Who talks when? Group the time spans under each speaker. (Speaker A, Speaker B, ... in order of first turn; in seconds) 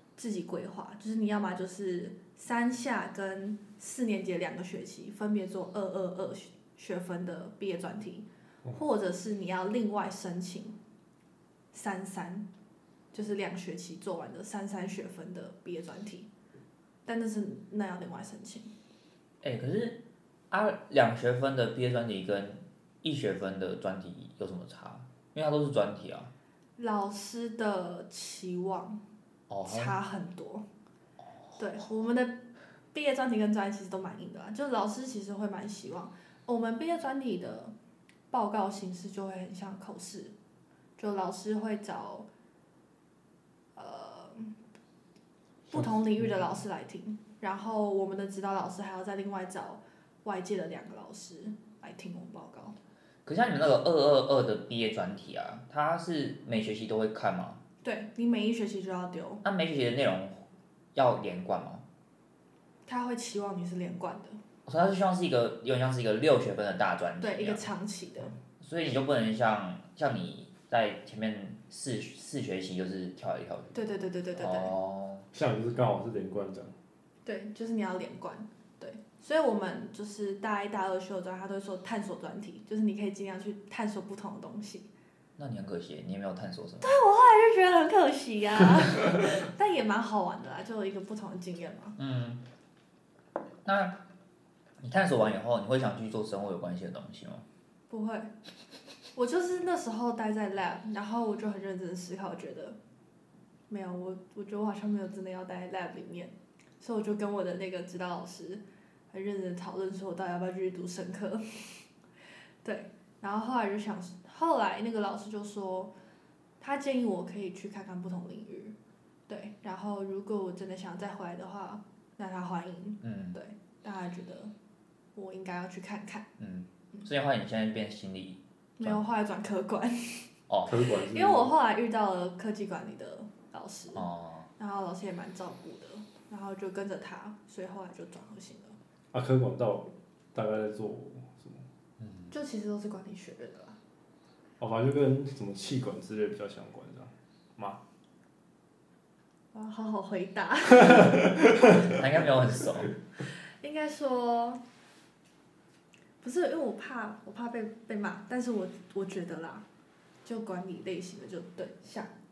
Speaker A: 0.2-10.8, 11.7-12.5, 13.1-16.3, 17.1-18.7, 26.8-29.0, 29.6-30.6, 31.6-37.7, 38.3-40.3, 41.0-42.3, 43.8-44.5, 45.7-52.8, 57.8-59.4, 62.9-64.4, 67.2-68.3, 73.7-74.7, 77.2-84.9, 86.8-92.0, 97.9-98.3, 99.1-102.8, 103.7-111.8, 112.6-115.9, 116.6-118.8, 119.3-124.5, 125.1-126.2, 128.8-130.3, 131.1-138.8, 142.3-143.8, 149.5-151.4, 153.6-154.6, 156.2-159.6, 160.2-162.1
Speaker B: 19.4-26.3, 29.5-29.9, 53.2-57.6, 59.4-61.8, 64.7-67.7, 68.6-73.8, 74.4-75.3, 85.4-87.0, 92.0-92.4, 93.6-94.0, 94.8-97.4, 123.0-123.4, 126.4-129.0, 130.5-130.7, 133.9-134.5, 142.0-142.3, 151.8-152.9
Speaker C: 75.3-76.7, 130.7-131.5, 139.1-141.6, 144.6-147.8